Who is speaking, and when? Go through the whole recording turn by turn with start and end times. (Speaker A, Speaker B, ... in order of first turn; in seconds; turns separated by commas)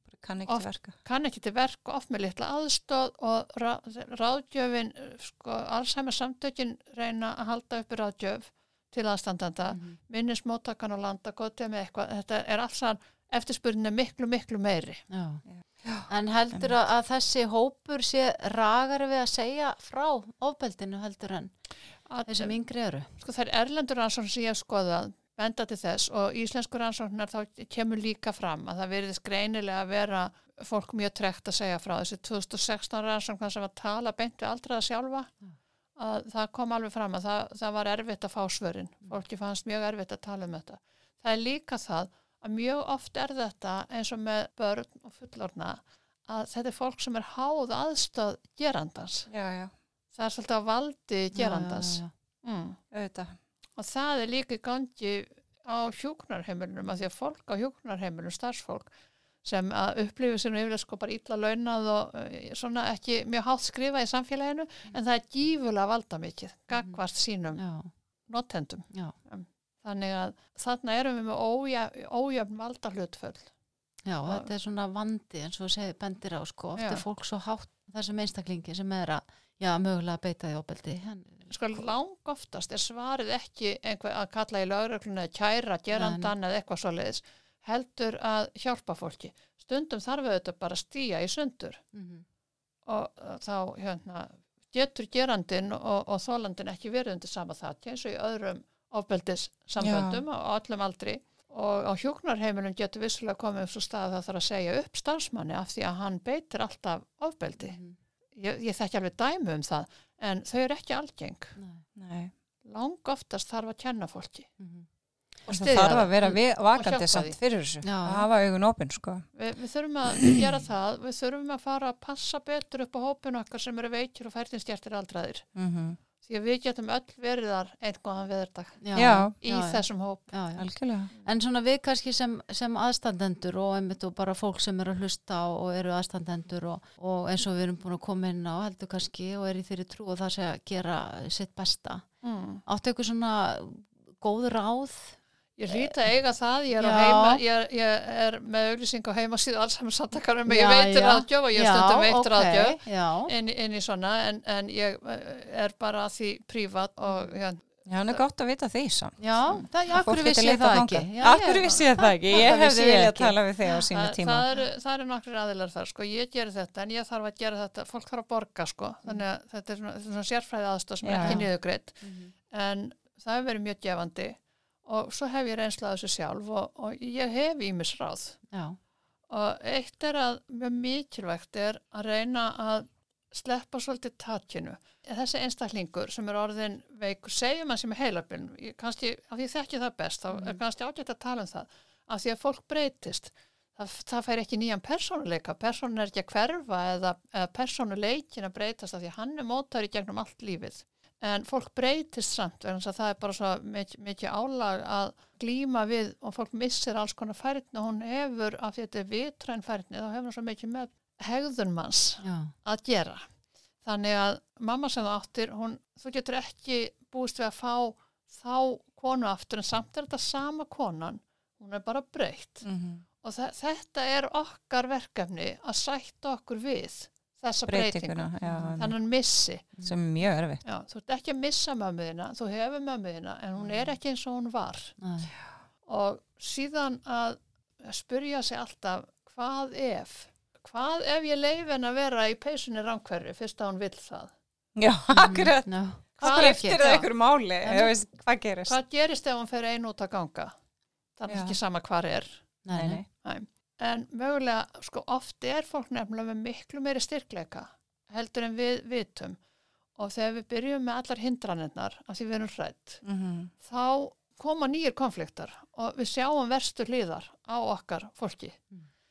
Speaker A: 0.2-0.9, Speaker B: 0.5-15.1, Speaker C: 9.7-10.0, Speaker C: 15.1-15.4, Speaker A: 15.5-16.8, Speaker C: 16.1-21.5, Speaker B: 22.1-22.6, Speaker C: 22.3-23.1, Speaker B: 23.2-35.3, Speaker B: 36.0-49.3, Speaker A: 49.3-49.7, Speaker B: 50.1-52.8, Speaker C: 51.3-52.1, Speaker A: 52.9-53.4, Speaker B: 53.8-58.9, Speaker B: 59.4-67.6, Speaker C: 67.6-67.9, Speaker B: 68.3-73.5, Speaker C: 74.0-81.5, Speaker B: 76.8-77.0, Speaker B: 81.5-91.8, Speaker C: 85.9-86.3, Speaker C: 91.9-92.2, Speaker B: 92.9-107.8, Speaker A: 99.8-100.2, Speaker C: 107.6-108.0, Speaker B: 108.3-111.6, Speaker C: 111.6-111.8, Speaker A: 112.0-112.3, Speaker B: 112.7-114.5, Speaker C: 114.6-114.9, Speaker B: 115.5-116.1, Speaker A: 115.5-119.3, Speaker B: 116.7-117.4, Speaker C: 117.8-118.3, Speaker B: 119.3-125.5, Speaker A: 125.6-126.0, Speaker B: 126.2-128.8, Speaker C: 128.8-130.7, Speaker A: 128.9-129.3, Speaker B: 129.4-130.3, Speaker A: 130.6-131.1, Speaker C: 131.2-142.1, Speaker B: 142.2-142.6, Speaker C: 142.7-145.2, Speaker B: 145.6-158.2, Speaker C: 146.8-147.4, Speaker C: 150.5-153.3, Speaker A: 157.9-164.4, Speaker C: 159.2-163.3, Speaker B: 163.9-178.4, Speaker A: 171.0-171.4, Speaker C: 171.2-171.5, Speaker C: 172.0-172.3, Speaker C: 178.5-178.8, Speaker B: 179.3-213.3, Speaker C: 212.2-212.5, Speaker B: 213.8-222.7, Speaker A: 222.6-223.0, Speaker B: 223.2-229.7, Speaker A: 227.7-228.9, Speaker C: 228.4-228.9, Speaker A: 229.8-230.6, Speaker B: 230.6-234.9, Speaker C: 235.0-235.3, Speaker B: 235.9-244.3, Speaker A: 244.8-248.8, Speaker C: 245.1-246.8, Speaker B: 246.2-247.1, Speaker C: 247.6-247.9, Speaker B: 248.7-250.5, Speaker B: 251.2-252.4, Speaker A: 251.3-251.6, Speaker C: 252.6-253.0, Speaker A: 252.7-253.1, Speaker B: 253.2-259.4, Speaker B: 260.0-263.0, Speaker A: 263.0-263.5, Speaker B: 263.6-268.6